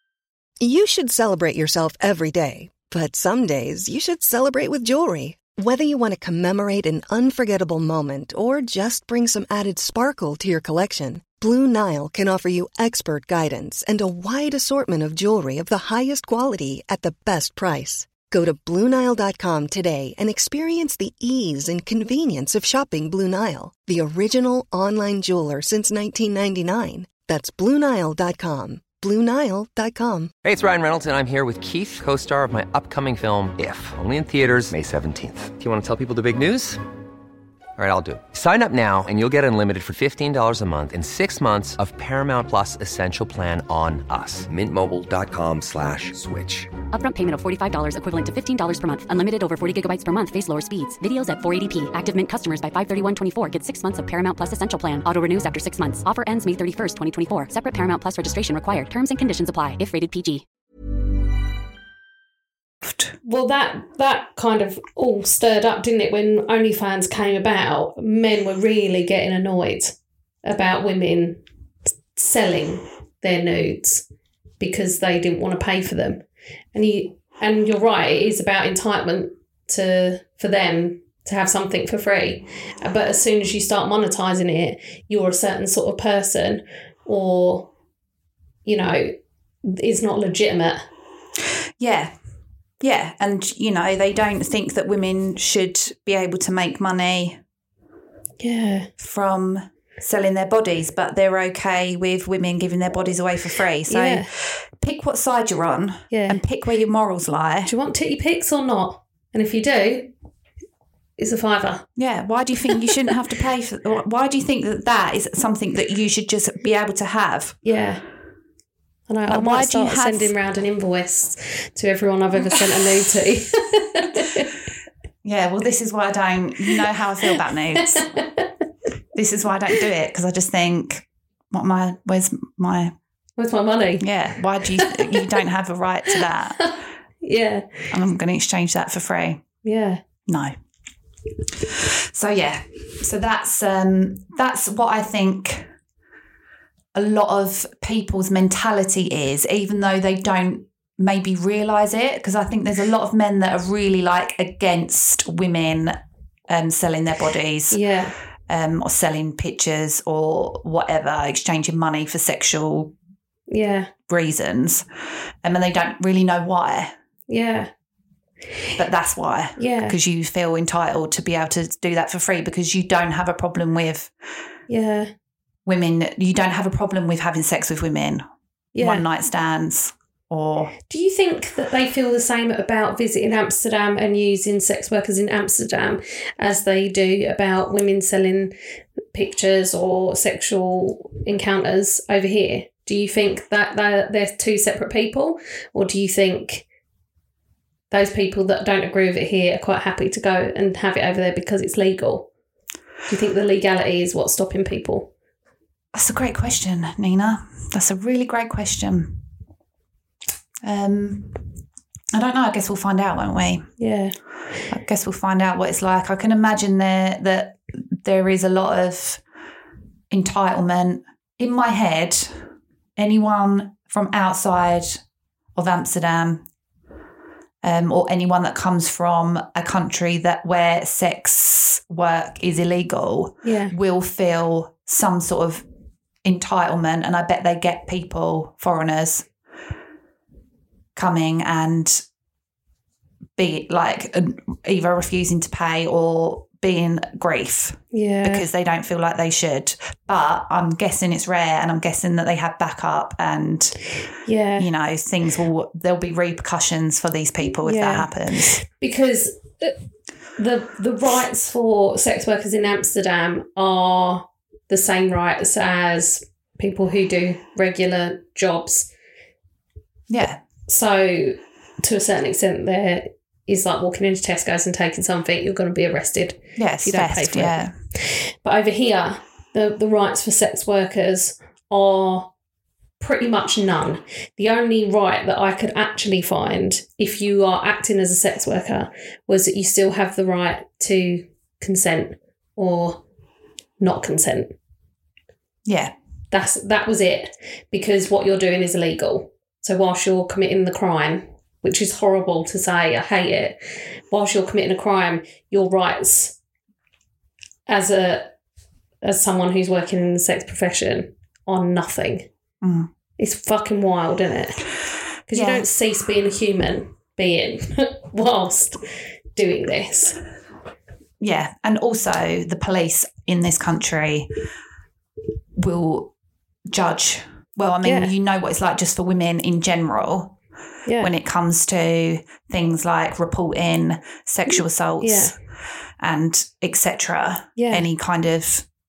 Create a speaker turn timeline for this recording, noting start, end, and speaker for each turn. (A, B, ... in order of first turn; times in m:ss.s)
0:00.6-0:30.3 A
0:30.4-0:36.8 B
0:37.8-0:46.8 B
0:46.9-1:00.4 C
1:02.8-1:03.1 D
1:03.2-1:11.4 E
1:12.2-1:14.0 E
1:14.6-1:16.2 E
1:16.7-1:27.7 E
1:28.6-1:30.8 E
1:31.8-1:32.2 D
1:32.8-1:37.4 D
1:38.4-1:38.9 E
1:39.0-1:47.7 D
1:43.9-1:44.3 E
1:46.1-1:46.4 E
1:47.7-1:50.1 E
1:51.2-1:51.9 E
1:52.0-1:57.6 D
1:57.6-1:58.0 E
1:59.1-2:04.6 E
1:59.3-2:00.3 D
2:05.2-2:08.1 D
2:07.8-2:08.5 E
2:09.1-2:13.0 D
2:13.4-2:14.1 E
2:14.0-2:16.8 D
2:14.6-2:15.3 E
2:16.1-2:17.9 E
2:17.9-2:19.4 D
2:19.6-2:20.0 E
2:20.3-2:20.5 D
2:21.5-2:25.7 D
2:26.9-2:36.0 D
2:36.5-2:37.8 D
2:37.7-2:38.2 E
2:38.5-2:42.9 D
2:43.5-2:43.9 E
2:44.1-2:44.9 D
2:45.4-2:46.9 D
2:47.3-2:47.7 E
2:48.8-2:54.1 D
2:49.6-2:50.0 E
2:54.7-2:55.1 E
2:55.7-2:58.2 D
2:58.8-2:59.0 E
2:58.8-3:00.7 D
3:00.9-3:08.5 E
3:09.1-3:16.6 E
3:17.9-3:22.3 E
3:23.1-3:25.1 E
3:25.9-3:29.2 D
3:30.6-3:31.4 D
3:32.1-3:33.7 D
3:33.8-3:34.2 E
3:34.7-3:39.2 D
3:40.1-3:42.4 D
3:43.0-3:45.0 D
3:45.6-3:46.4 D
3:47.6-3:55.6 D
3:53.4-3:53.8 E
3:56.2-3:59.3 D
4:01.0-4:02.0 D
4:03.4-4:13.8 D
4:07.9-4:08.5 E
4:14.2-4:14.7 E
4:14.6-4:18.6 D
4:17.6-4:19.8 E
4:20.4-4:28.9 E
4:30.1-4:30.4 D
4:30.7-4:42.3 E
4:36.6-4:37.7 D
4:43.0-4:53.0 E
4:53.8-4:54.5 E
4:55.7-4:55.9 D
4:56.3-5:03.6 E
5:04.1-5:06.4 E
5:07.7-5:08.3 E
5:09.0-5:12.3 E
5:12.6-5:12.9 D
5:13.2-5:14.7 E
5:15.3-5:18.8 E
5:15.3-5:15.7 D
5:19.4-5:20.2 E
5:21.2-5:24.3 D
5:25.6-5:26.1 D
5:26.7-5:30.4 D
5:27.8-5:28.1 E
5:30.9-5:31.1 E
5:31.0-5:35.4 D
5:35.0-5:35.4 E
5:36.0-5:38.7 D
5:37.6-5:37.9 E